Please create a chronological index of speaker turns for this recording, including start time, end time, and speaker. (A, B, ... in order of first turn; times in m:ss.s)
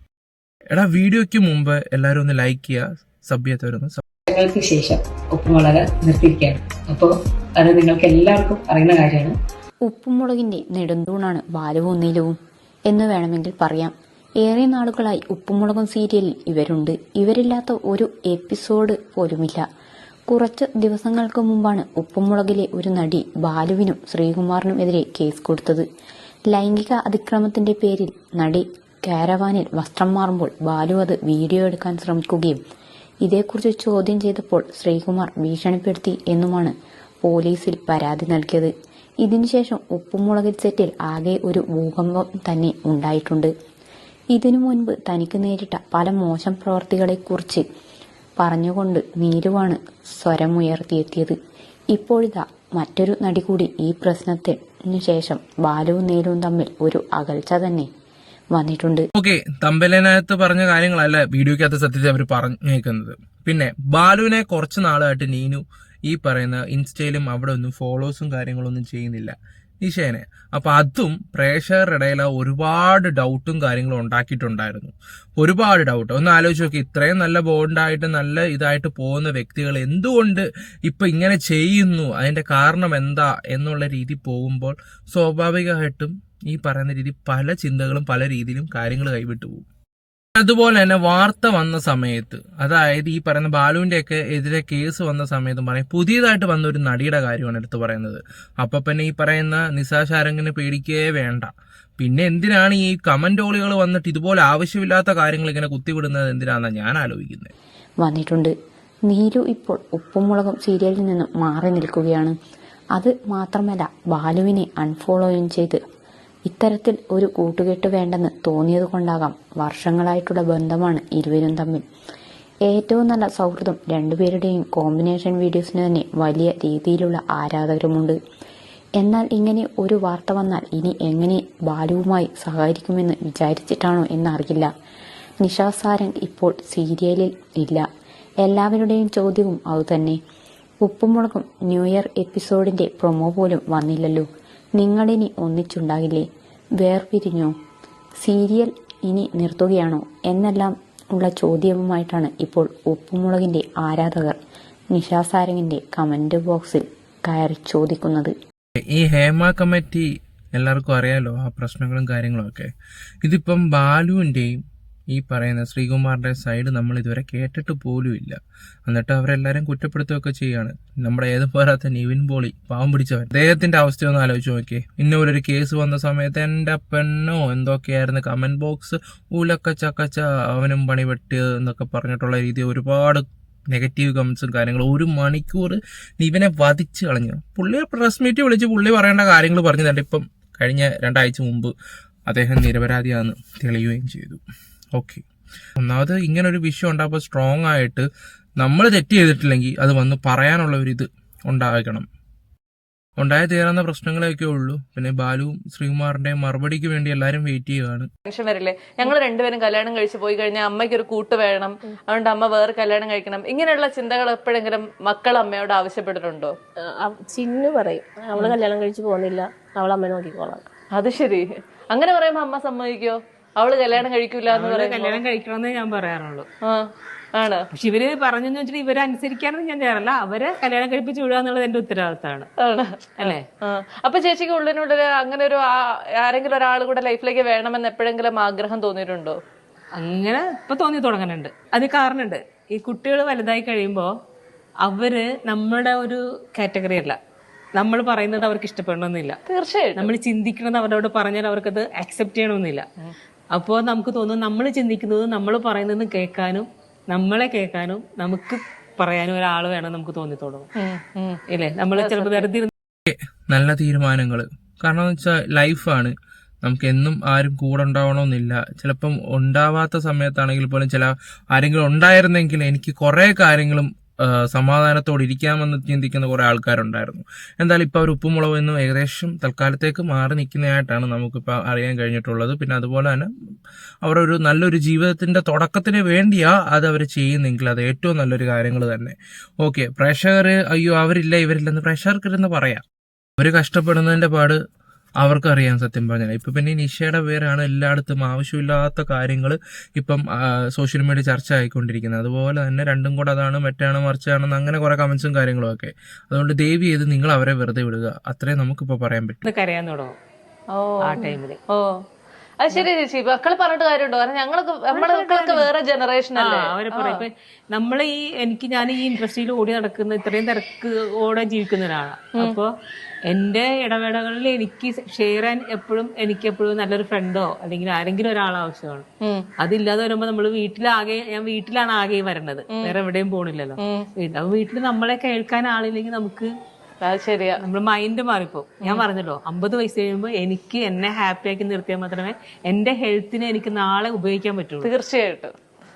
0:00.7-0:04.0 A
0:04.3-0:09.3 B
0:09.9-0:12.3 C
0:12.9-0:19.6 C
0:20.3-0:25.8 C
0:26.5-0:32.6 C
0:33.2-0:43.5 C
0:44.3-0:47.6 C
0:48.4-0:51.4 C
0:51.9-0:57.9 C
0:58.5-0:59.1 C
0:59.2-1:29.6 A
1:30.4-1:47.5 A
1:48.0-1:48.5 C
1:49.1-1:52.3 C
1:53.0-1:55.8 C
1:56.5-2:01.8 C
2:02.7-2:08.2 C
2:09.0-2:14.7 C
2:15.4-2:17.8 C
2:18.4-2:20.2 C
2:20.8-2:26.2 C
2:26.8-2:27.5 C
2:28.2-2:34.4 C
2:34.9-2:38.3 C
2:38.9-2:42.7 A
2:43.2-2:44.6 A
2:45.1-3:11.7 A
3:12.3-3:14.4 A
3:14.9-3:15.2 A
3:15.8-3:18.1 A
3:18.6-3:22.1 A
3:23.2-3:28.1 A
3:28.3-3:36.5 D
3:37.0-3:40.6 E
3:40.9-3:45.2 D
3:44.5-3:46.5 F
3:46.7-3:47.6 D
3:47.7-3:52.5 F
3:52.6-3:59.4 D
4:00.0-4:04.1 F
4:04.8-4:07.2 F
4:07.8-4:09.4 F
4:09.5-4:10.1 D
4:09.9-4:12.8 F
4:13.5-4:20.7 F
4:20.8-4:21.4 D
4:21.5-4:22.7 F
4:22.0-4:22.5 D
4:23.1-4:43.3 A
4:44.0-4:52.8 A
4:53.4-4:54.6 A
4:55.2-5:09.4 A
5:09.4-5:10.1 F
5:10.7-5:11.9 D
5:11.0-5:11.6 F
5:12.6-5:17.2 D
5:14.9-5:15.7 F
5:16.3-5:22.7 F
5:23.3-5:29.0 F
5:29.6-5:36.5 F
5:33.8-5:34.0 D
5:37.0-5:37.6 D
5:37.6-5:44.9 F
5:44.8-5:45.5 D